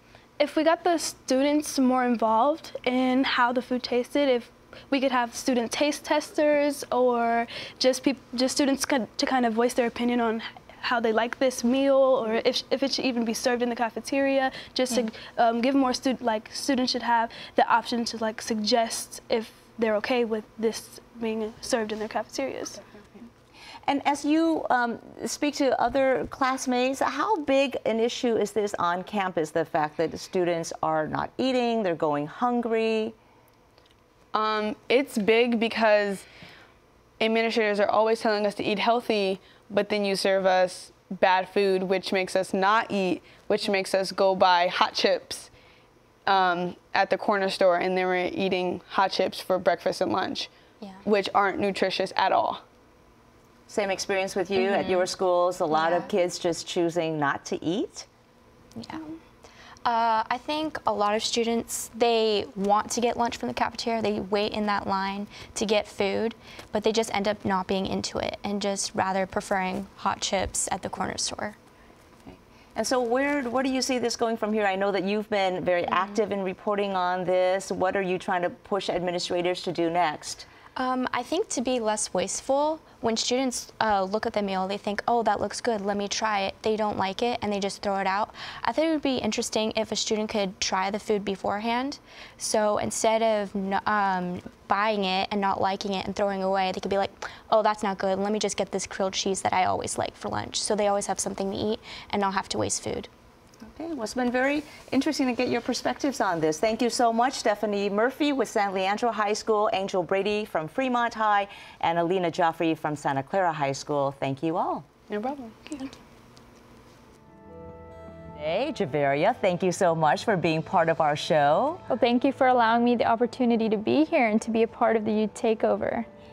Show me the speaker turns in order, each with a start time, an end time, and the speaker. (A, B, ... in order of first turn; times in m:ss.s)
0:00.4-0:22.9 A
0:23.8-0:33.1 B
0:34.3-0:36.2 C
0:37.2-0:45.5 C
0:46.2-0:50.5 C
0:51.0-0:52.6 C
0:53.7-0:58.1 B
0:54.6-0:55.0 D
0:55.7-0:56.1 D
0:58.8-0:59.0 D
0:59.8-1:11.6 D
1:12.3-1:20.5 B
1:20.8-1:43.1 D
1:43.7-1:54.9 B
1:55.1-1:55.9 C
1:58.4-2:01.8 B
2:01.9-2:06.1 E